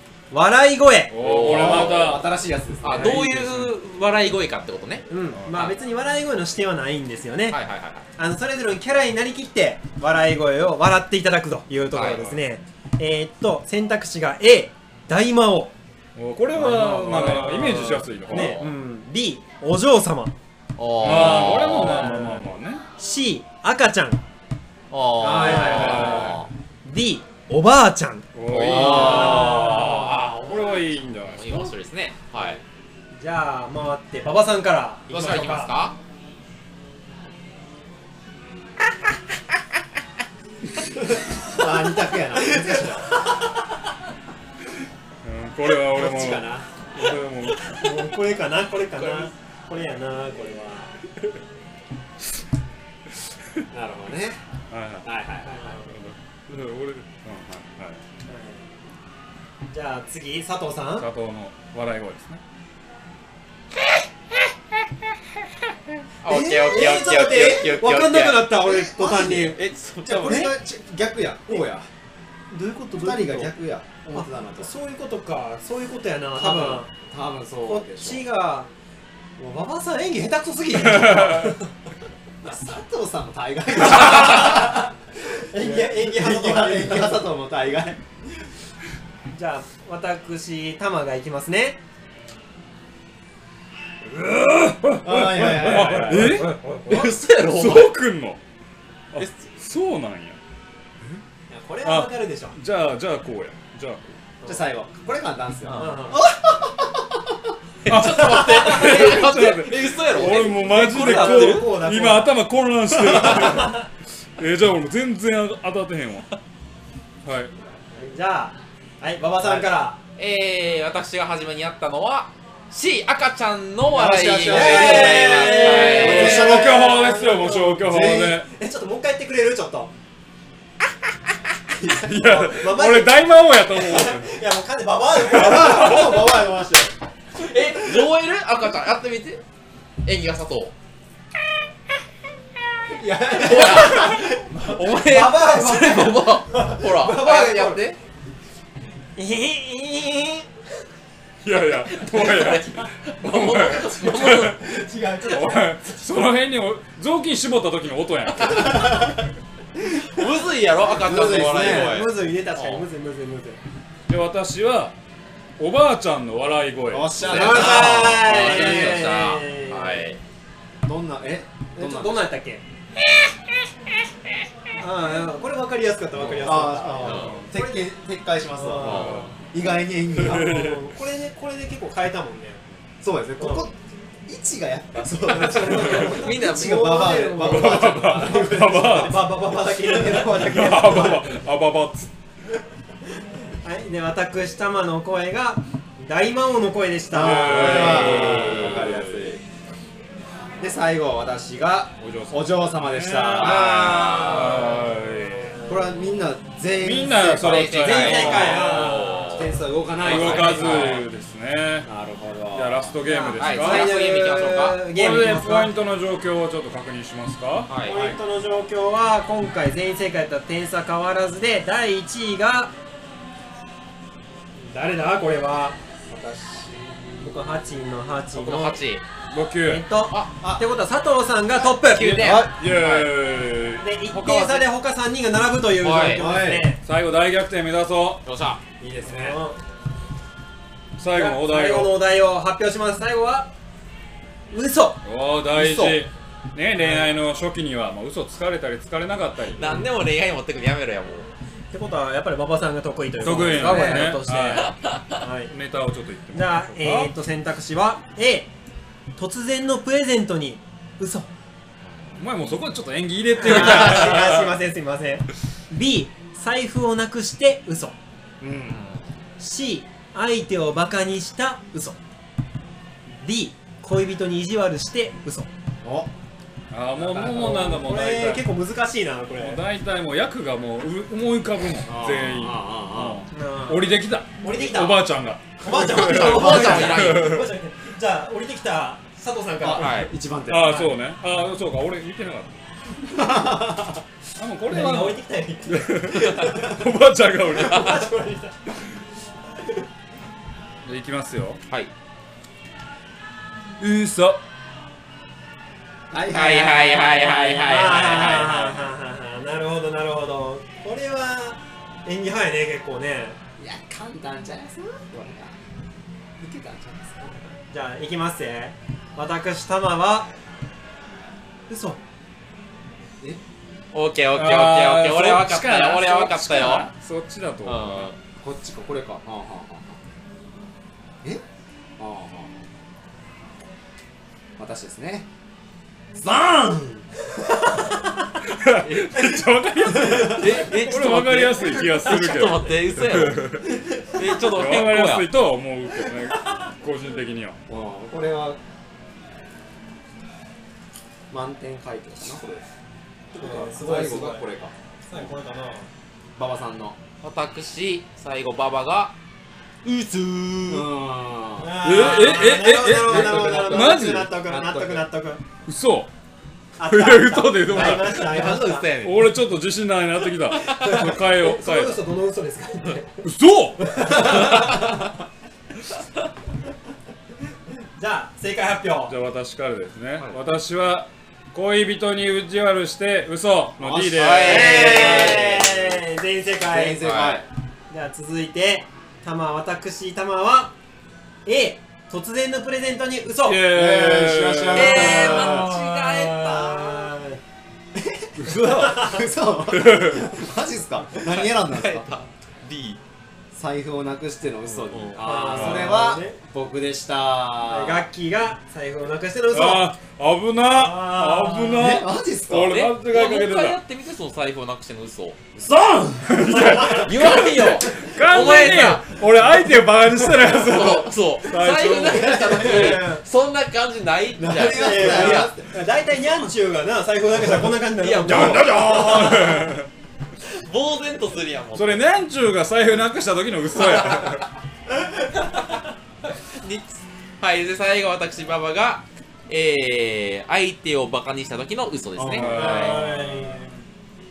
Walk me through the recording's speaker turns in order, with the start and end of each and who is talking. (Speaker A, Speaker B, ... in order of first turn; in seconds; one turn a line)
Speaker A: 0.3-1.2
Speaker B: 1.1-2.3
Speaker C: 1.2-2.2
Speaker D: 1.2-3.3
Speaker C: 2.8-5.7
Speaker B: 2.9-3.7
Speaker A: 5.1-7.6
Speaker B: 5.3-5.7
Speaker C: 7.5-8.1
Speaker A: 8.2-15.8
Speaker C: 11.9-12.3
Speaker B: 16.2-18.6
Speaker A: 16.5-20.4
Speaker C: 17.3-18.7
Speaker C: 20.8-22.1
Speaker B: 21.0-22.8
Speaker A: 21.5-22.4
Speaker A: 23.0-24.2
Speaker C: 24.9-26.5
Speaker D: 25.2-26.3
Speaker A: 25.4-26.2
Speaker B: 25.4-26.4
Speaker A: 26.9-30.1
Speaker B: 28.3-31.7
Speaker C: 28.5-32.6
Speaker A: 33.2-35.8
Speaker C: 35.1-36.0
Speaker D: 41.4-43.1
Speaker B: 45.2-48.2
Speaker D: 45.9-46.7
Speaker A: 47.7-50.9
Speaker C: 49.0-49.3
Speaker D: 53.7-54.4
Speaker B: 54.7-55.1
Speaker D: 55.0-55.6
Speaker A: 55.5-55.9
Speaker B: 55.7-58.0
Speaker A: 58.3-58.6
Speaker A: 59.7-61.1
Speaker B: 61.0-62.4
Speaker C: 66.2-68.5
Speaker A: 66.3-69.6
Speaker D: 68.6-71.9
Speaker C: 69.5-70.5
Speaker A: 70.2-70.5
Speaker A: 72.5-73.5
Speaker D: 73.0-74.7
Speaker A: 74.1-76.9
Speaker D: 76.4-78.3
Speaker A: 77.7-78.7
Speaker A: 79.4-81.7
Speaker B: 80.7-81.6
Speaker D: 82.4-84.9
Speaker A: 83.9-84.7
Speaker A: 85.5-87.2
Speaker D: 85.5-88.0
Speaker A: 89.3-91.8
Speaker B: 94.0-98.4
Speaker D: 95.0-96.5
Speaker A: 95.7-97.1
Speaker C: 96.2-98.0
Speaker B: 99.1-100.4
Speaker A: 101.5-102.6
Speaker B: 101.8-104.1
Speaker A: 104.4-104.7
Speaker D: 104.4-107.3
Speaker C: 105.7-106.0
Speaker A: 105.7-106.2
Speaker C: 107.8-111.7
Speaker B: 107.9-116.3
Speaker A: 108.0-109.2
Speaker A: 110.7-112.3
Speaker A: 113.1-113.8
Speaker B: 117.2-117.5
Speaker A: 118.0-120.0
Speaker D: 119.4-119.7
Speaker C: 120.2-126.6
Speaker D: 123.9-128.4
Speaker A: 124.4-127.8
Speaker B: 124.9-128.5
Speaker A: 128.5-129.9
Speaker D: 131.7-132.7
Speaker B: 131.9-134.4
Speaker A: 132.5-136.3
Speaker D: 135.2-136.9
Speaker B: 135.3-136.4
Speaker C: 137.4-139.4
Speaker C: 140.1-140.7
Speaker D: 142.9-147.8
Speaker C: 143.3-148.0
Speaker A: 143.9-144.3
Speaker A: 146.6-147.8
Speaker A: 149.2-150.5
Speaker B: 151.4-154.7
Speaker C: 151.8-154.6
Speaker D: 154.8-155.6
Speaker A: 154.9-155.6
Speaker B: 155.3-159.2
Speaker C: 158.4-159.1
Speaker C: 159.9-162.9
Speaker D: 160.9-162.0
Speaker A: 161.3-163.6
Speaker B: 164.1-165.0
Speaker B: 165.6-167.7
Speaker D: 166.9-169.0
Speaker C: 167.2-170.2
Speaker A: 167.3-170.0
Speaker D: 170.8-172.3
Speaker A: 171.7-172.6
Speaker A: 174.8-177.9
Speaker D: 176.4-180.5
Speaker C: 177.0-177.4
Speaker A: 178.5-179.2
Speaker C: 178.8-179.3
Speaker B: 178.9-179.3
Speaker A: 180.2-182.6
Speaker B: 180.2-181.0
Speaker D: 183.0-191.0
Speaker A: 183.4-183.7
Speaker A: 185.2-191.4
Speaker C: 185.7-187.0
Speaker B: 187.3-189.2
Speaker B: 190.2-192.1
Speaker A: 193.6-198.5
Speaker D: 197.1-199.4
Speaker B: 197.1-199.3
Speaker C: 197.7-198.9
Speaker D: 200.6-204.8
Speaker B: 202.0-205.6
Speaker C: 203.3-204.7
Speaker D: 205.7-211.0
Speaker B: 206.8-209.0
Speaker C: 207.3-211.1
Speaker A: 207.8-209.6
Speaker B: 210.0-211.9
Speaker D: 211.9-212.9
Speaker B: 212.5-214.0
Speaker A: 213.0-215.7
Speaker C: 213.4-214.8
Speaker B: 214.9-217.7
Speaker C: 217.7-217.9
Speaker A: 217.8-222.7
Speaker D: 217.9-218.2
Speaker A: 224.6-225.8
Speaker D: 226.1-227.3
Speaker A: 227.2-228.8
Speaker C: 228.3-229.0
Speaker B: 229.3-229.8
Speaker A: 229.7-232.4
Speaker D: 230.4-230.7
Speaker C: 231.7-233.2
Speaker B: 232.0-234.7
Speaker D: 232.2-232.6
Speaker A: 233.8-236.8
Speaker C: 235.8-236.2
Speaker D: 236.1-236.7
Speaker B: 236.8-238.2
Speaker C: 238.2-238.6
Speaker D: 238.8-239.4
Speaker A: 239.1-239.6
Speaker B: 241.0-242.0
Speaker A: 241.1-243.5
Speaker A: 244.5-245.0
Speaker B: 245.0-249.8
Speaker D: 245.6-246.0
Speaker A: 246.8-247.1
Speaker C: 249.6-251.3
Speaker A: 251.7-255.5
Speaker B: 253.2-254.8
Speaker D: 253.6-254.2
Speaker C: 253.7-254.0
Speaker C: 254.6-255.0
Speaker B: 255.5-257.1
Speaker A: 256.3-258.5
Speaker A: 259.2-261.3
Speaker C: 262.0-262.6
Speaker B: 262.2-264.5
Speaker A: 263.4-268.0
Speaker C: 263.6-264.1
Speaker D: 268.4-268.9
Speaker C: 268.7-269.1
Speaker A: 269.4-272.0
Speaker A: 273.2-275.5
Speaker D: 275.8-276.1
Speaker B: 276.7-278.4
Speaker A: 277.0-279.6
Speaker B: 279.4-287.5
Speaker D: 281.9-283.2
Speaker A: 283.3-290.9
Speaker C: 285.7-287.5
Speaker D: 286.5-287.1
Speaker D: 289.6-290.8
Speaker C: 289.7-290.1
Speaker B: 290.5-292.6
Speaker D: 293.1-294.0
Speaker B: 294.4-298.1
Speaker A: 294.7-296.8
Speaker A: 297.5-298.6
Speaker C: 297.6-297.9
Speaker B: 300.8-301.6
Speaker B: 303.8-304.4
Speaker D: 306.1-307.5
Speaker C: 306.3-308.9
Speaker A: 307.2-313.4
Speaker D: 313.6-315.6
Speaker D: 316.4-317.4
Speaker A: 317.7-320.3
Speaker A: 321.7-322.0
Speaker C: 323.9-326.9
Speaker B: 324.3-328.1
Speaker C: 327.6-328.2
Speaker D: 328.4-330.0
Speaker D: 332.0-332.6
Speaker D: 334.6-335.3
Speaker D: 336.1-337.1
Speaker B: 338.4-343.8
Speaker C: 338.8-339.2
Speaker C: 340.2-345.3
Speaker B: 344.5-347.6
Speaker D: 347.7-348.6
Speaker D: 351.3-352.6
Speaker A: 353.3-354.4
Speaker D: 353.4-354.7
Speaker A: 355.1-355.9
Speaker D: 356.4-357.0
Speaker C: 357.2-359.2
Speaker C: 359.8-360.9
Speaker D: 360.7-365.0
Speaker A: 361.6-365.4
Speaker B: 361.8-364.3
Speaker B: 365.7-366.1
Speaker A: 366.8-368.9
Speaker B: 366.9-368.4
Speaker C: 368.1-369.4
Speaker B: 369.0-372.0
Speaker A: 370.7-373.2
Speaker B: 373.2-373.9
Speaker A: 373.8-374.8
Speaker C: 374.2-374.9
Speaker A: 378.0-379.1
Speaker B: 379.1-385.1
Speaker D: 383.8-386.0
Speaker C: 384.1-385.5
Speaker A: 384.5-387.0
Speaker D: 386.7-387.5
Speaker C: 387.0-387.4
Speaker A: 387.9-390.8
Speaker A: 391.5-393.7
Speaker B: 393.4-395.3
Speaker D: 393.6-395.8
Speaker C: 394.7-397.1
Speaker A: 394.9-397.4
Speaker D: 397.9-402.2
Speaker B: 398.4-398.9
Speaker A: 398.8-399.2
Speaker B: 399.7-400.3
Speaker C: 401.2-403.0
Speaker D: 403.5-408.1
Speaker C: 404.8-405.6
Speaker A: 405.2-406.4
Speaker B: 405.6-405.9
Speaker A: 407.7-409.9
Speaker B: 409.5-413.8
Speaker A: 410.7-411.9
Speaker D: 411.7-412.8
Speaker C: 412.6-415.4
Speaker D: 415.6-416.6
Speaker B: 416.2-423.0
Speaker A: 416.5-417.0
Speaker C: 416.9-419.1
Speaker D: 417.7-418.0
Speaker C: 420.2-425.5
Speaker D: 421.9-423.1
Speaker A: 422.6-423.2
Speaker D: 424.4-425.8
Speaker A: 424.6-429.4
Speaker C: 428.0-429.6
Speaker B: 428.2-429.9
Speaker C: 430.5-432.0
Speaker B: 431.8-434.4
Speaker C: 433.8-434.4
Speaker C: 436.6-443.0
Speaker D: 442.2-443.0
Speaker B: 442.3-443.6
Speaker A: 442.4-443.7